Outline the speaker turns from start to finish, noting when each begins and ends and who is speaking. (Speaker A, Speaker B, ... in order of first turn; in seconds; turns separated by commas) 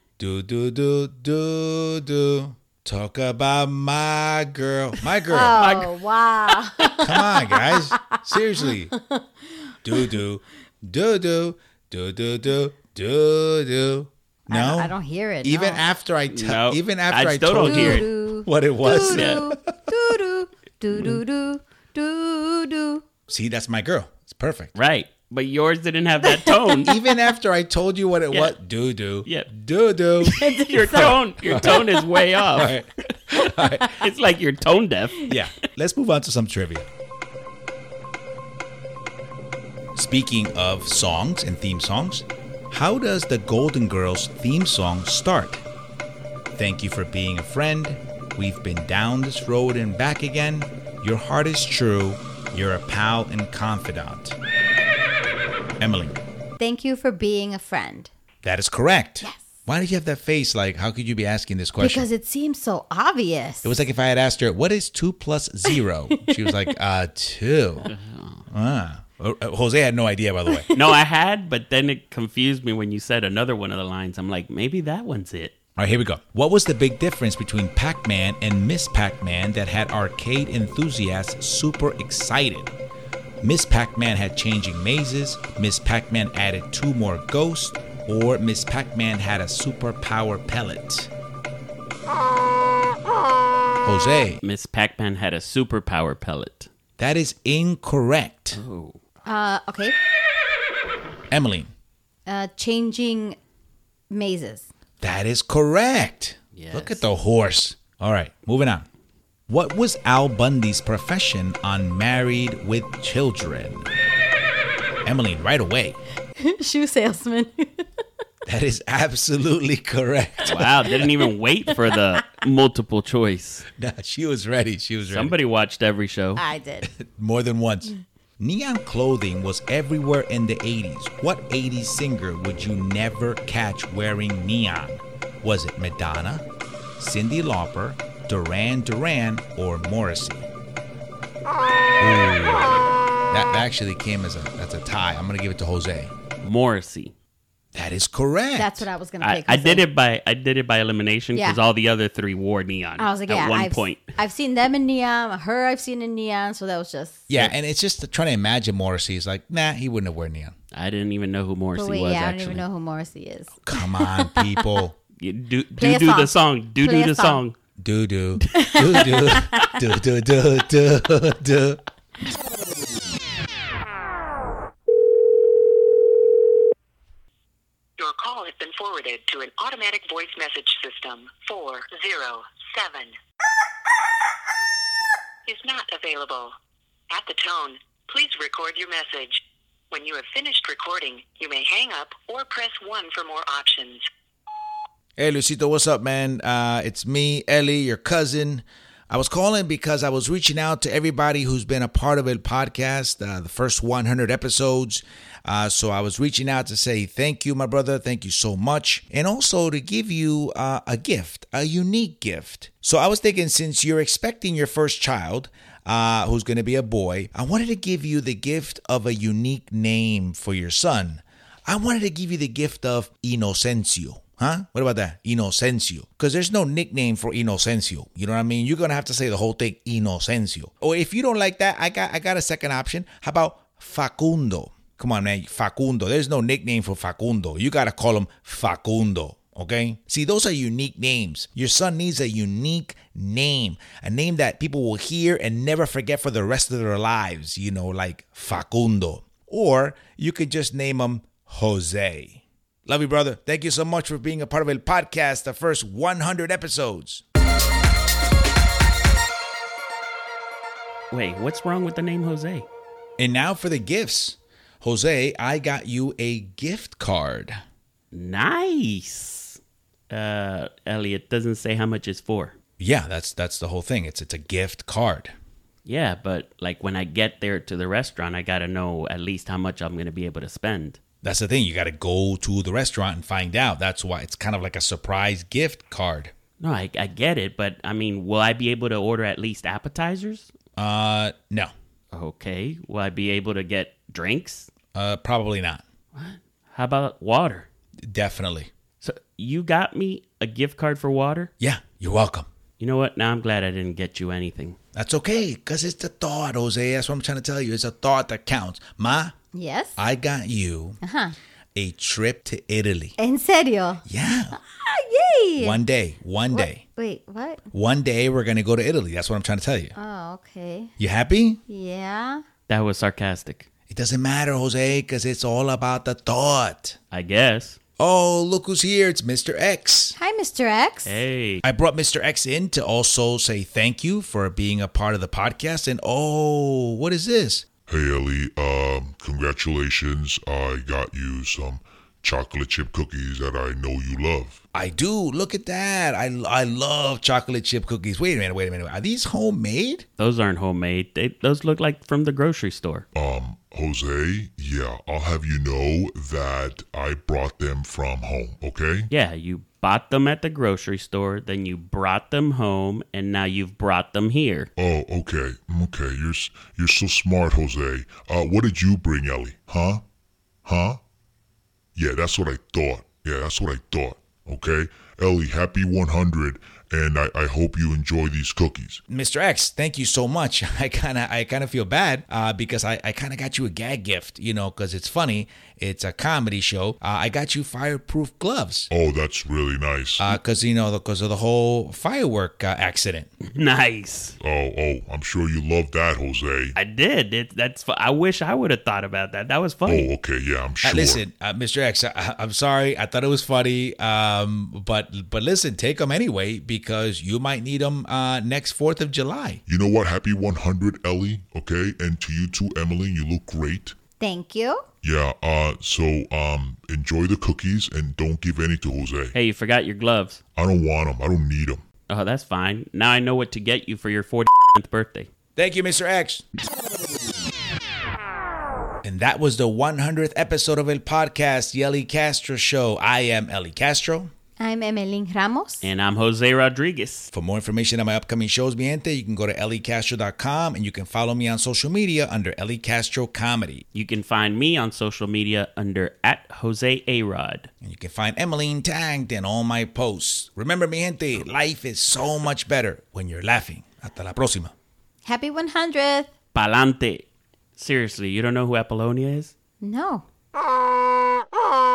Speaker A: 0.2-5.6, Speaker B: 5.3-8.2, Speaker C: 5.6-5.9, Speaker A: 7.0-8.9, Speaker B: 8.9-9.3, Speaker A: 9.8-20.1, Speaker B: 14.5-15.8, Speaker C: 16.3-18.1, Speaker B: 17.6-23.0, Speaker C: 19.1-19.4, Speaker A: 23.3-24.7, Speaker C: 24.8-27.0, Speaker A: 26.8-34.1, Speaker C: 30.2-35.3, Speaker B: 30.4-31.1, Speaker A: 35.3-36.9, Speaker A: 40.0-45.6, Speaker A: 46.5-54.4, Speaker A: 55.8-56.2, Speaker B: 56.6-58.1, Speaker A: 58.4-62.1, Speaker B: 61.8-63.8, Speaker A: 63.6-67.9, Speaker B: 66.2-66.7, Speaker C: 67.9-68.5, Speaker A: 68.5-70.7, Speaker B: 70.5-70.8, Speaker C: 70.7-75.5, Speaker A: 75.8-82.7, Speaker A: 83.4-91.1, Speaker A: 93.8-94.4, Speaker C: 94.4-96.7, Speaker A: 97.0-98.6, Speaker C: 98.5-99.0, Speaker B: 99.3-100.0, Speaker A: 101.3-101.7, Speaker B: 102.3-103.4, Speaker B: 104.1-104.7, Speaker A: 105.0-108.9, Speaker C: 106.5-107.0, Speaker A: 109.5-113.9, Speaker A: 115.0-116.0, Speaker B: 116.4-117.9, Speaker A: 118.5-120.8, Speaker C: 120.5-123.7, Speaker A: 123.8-125.4, Speaker C: 125.1-126.4, Speaker B: 126.4-126.9, Speaker A: 126.9-136.5, Speaker A: 137.0-140.5, Speaker A: 142.0-146.1, Speaker C: 146.4-147.1, Speaker A: 147.7-148.9, Speaker B: 148.6-149.8, Speaker C: 149.2-154.2, Speaker B: 151.3-151.6, Speaker B: 153.0-157.3, Speaker A: 157.3-160.6, Speaker C: 160.7-162.6, Speaker B: 161.8-164.6, Speaker A: 163.7-165.0, Speaker C: 165.2-167.6, Speaker B: 165.8-167.4, Speaker A: 167.8-171.8, Speaker B: 168.6-169.8, Speaker D: 178.0-183.1, Speaker D: 185.5-186.6, Speaker D: 187.1-194.1, Speaker A: 195.2-257.2, Speaker C: 261.1-262.7, Speaker A: 263.2-267.6, Speaker C: 268.1-269.6, Speaker C: 270.1-272.6, Speaker A: 272.8-275.3, Speaker C: 275.9-281.0, Speaker A: 281.2-286.3, Speaker C: 286.6-290.5, Speaker A: 290.8-291.7, Speaker C: 292.1-294.7, Speaker A: 294.9-295.8, Speaker C: 296.1-297.7, Speaker A: 298.0-298.7, Speaker C: 299.0-301.5, Speaker A: 301.6-302.5, Speaker C: 302.8-304.8, Speaker A: 304.9-309.4, Speaker B: 309.5-310.0, Speaker A: 310.0-311.0, Speaker B: 311.0-311.4, Speaker A: 311.8-313.1, Speaker B: 313.2-314.0, Speaker A: 314.1-314.6, Speaker B: 314.6-315.8, Speaker A: 315.6-316.8, Speaker B: 316.5-317.6, Speaker A: 317.7-319.9, Speaker B: 319.9-320.9, Speaker A: 321.0-321.6, Speaker B: 321.7-322.4, Speaker C: 322.7-323.7, Speaker A: 323.9-327.0, Speaker C: 327.1-327.8, Speaker A: 328.0-330.2, Speaker B: 330.2-331.2, Speaker C: 331.1-331.6, Speaker A: 331.6-337.7, Speaker E: 337.9-344.6, Speaker A: 344.7-350.1, Speaker C: 350.2-353.1, Speaker E: 353.1-359.1, Speaker C: 359.1-364.7, Speaker E: 364.8-370.0, Speaker E: 370.6-371.0, Speaker E: 371.9-379.0, Speaker A: 379.1-388.9, Speaker E: 388.9-390.3, Speaker A: 390.2-393.3, Speaker C: 393.4-394.4, Speaker E: 394.4-396.8, Speaker C: 396.8-400.1, Speaker E: 399.9-401.2, Speaker A: 400.8-409.6, Speaker E: 409.7-413.9, Speaker B: 414.2-414.9, Speaker E: 415.0-419.4, Speaker C: 419.3-420.4, Speaker E: 420.6-421.9, Speaker C: 422.1-425.3, Speaker A: 425.6-426.4, Speaker A: 429.0-434.3, Speaker B: 434.6-435.9, Speaker C: 435.8-437.3, Speaker A: 437.3-443.9, Speaker C: 443.9-447.7, Speaker A: 447.8-454.7, Speaker B: 455.2-456.3, Speaker C: 456.5-457.3, Speaker C: 457.8-459.5, Speaker B: 459.8-460.2